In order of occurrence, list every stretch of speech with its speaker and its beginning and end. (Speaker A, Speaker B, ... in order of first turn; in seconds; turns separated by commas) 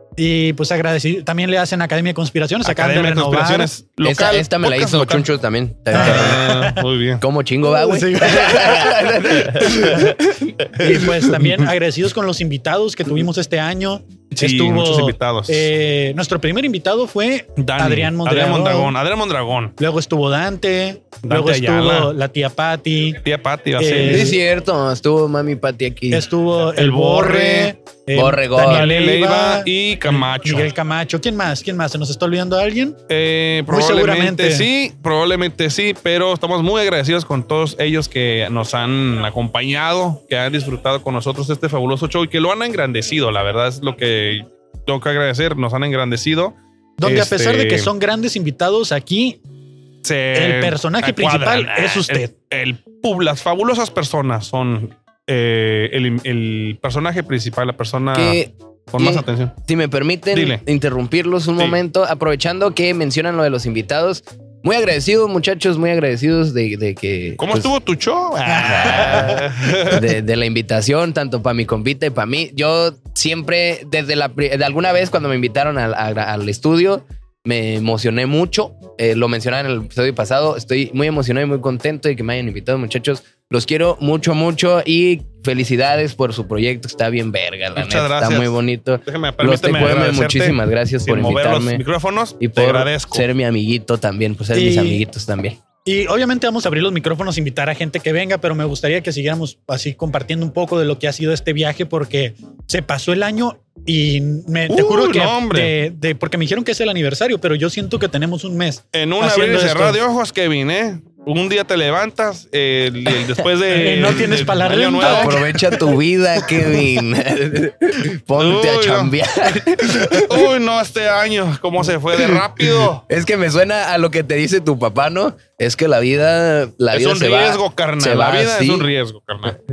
Speaker A: 0.2-3.7, Speaker B: 2.6-5.3, Speaker C: 4.0-6.5, Speaker B: 5.9-7.2, Speaker A: 5.9-6.8, Speaker C: 7.2-10.5, Speaker A: 7.6-9.1, Speaker B: 9.6-10.0, Speaker A: 9.8-10.1, Speaker B: 10.6-11.0, Speaker A: 10.8-18.9, Speaker B: 14.3-15.7, Speaker B: 17.6-19.7, Speaker A: 19.8-23.2, Speaker B: 21.2-22.1, Speaker B: 23.2-24.4, Speaker A: 23.8-24.3, Speaker C: 24.0-26.2, Speaker A: 26.1-33.0, Speaker B: 26.7-27.7, Speaker C: 28.1-28.9, Speaker B: 28.6-30.7, Speaker B: 33.1-47.9, Speaker A: 33.7-34.7, Speaker A: 47.0-49.4, Speaker B: 50.0-58.4, Speaker A: 50.3-52.3, Speaker C: 58.1-67.7, Speaker B: 58.9-59.5, Speaker B: 60.3-60.6, Speaker B: 67.4-70.0, Speaker C: 68.5-91.8, Speaker B: 87.7-93.2, Speaker C: 92.4-95.6, Speaker A: 94.5-95.0, Speaker A: 95.8-110.0, Speaker B: 104.7-105.7, Speaker B: 108.9-115.5, Speaker A: 113.7-116.0, Speaker C: 115.0-120.4, Speaker B: 118.3-119.1, Speaker B: 120.1-123.0, Speaker C: 123.1-128.9, Speaker B: 126.9-129.6